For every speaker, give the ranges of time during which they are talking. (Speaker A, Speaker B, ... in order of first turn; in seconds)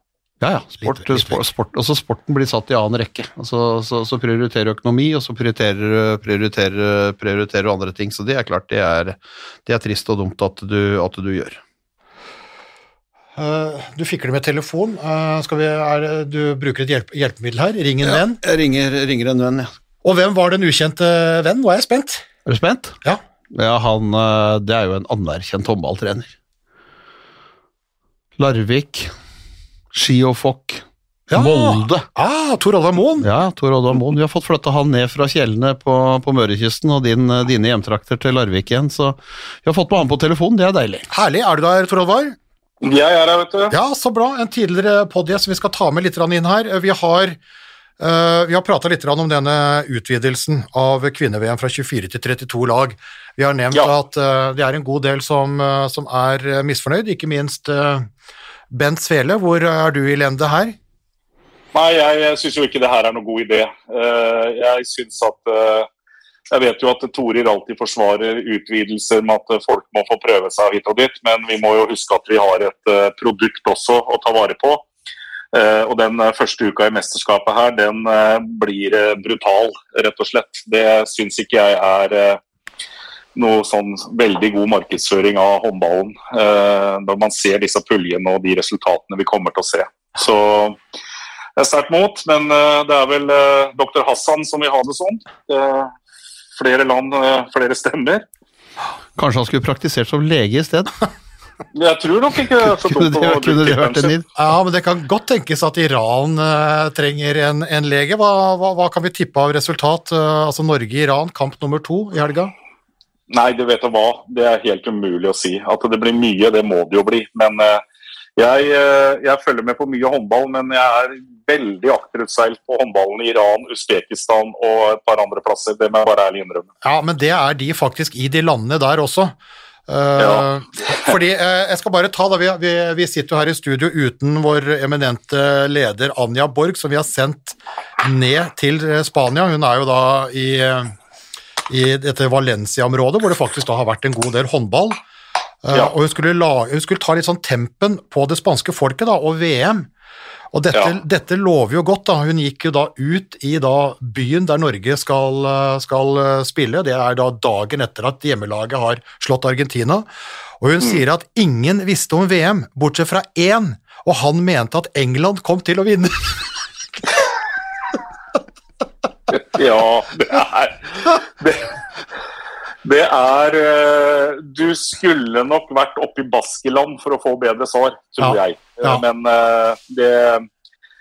Speaker A: 0.4-11.6, 18.0-19.7, 22.4-23.0, 23.5-26.3, 28.4-29.1, 29.9-30.8, 31.3-32.0, 33.2-41.1, 99.2-100.9, 102.8-104.2
Speaker B: 0.8-1.4, 13.3-18.4, 20.0-22.2, 31.3-33.3, 41.1-42.4, 43.7-47.4, 48.0-58.1, 58.7-60.8, 104.3-112.5, 126.8-129.3, 129.9-140.9, 141.7-145.0, 145.6-149.9, 150.5-160.1, 160.6-166.5, 178.2-179.0
Speaker C: 42.8-43.7, 61.7-65.9, 66.5-74.8, 75.5-82.4, 83.3-90.8, 91.6-95.9, 96.6-98.2, 101.7-104.1, 113.3-117.8, 118.4-126.7, 130.2-131.1, 169.3-171.7, 172.8-180.5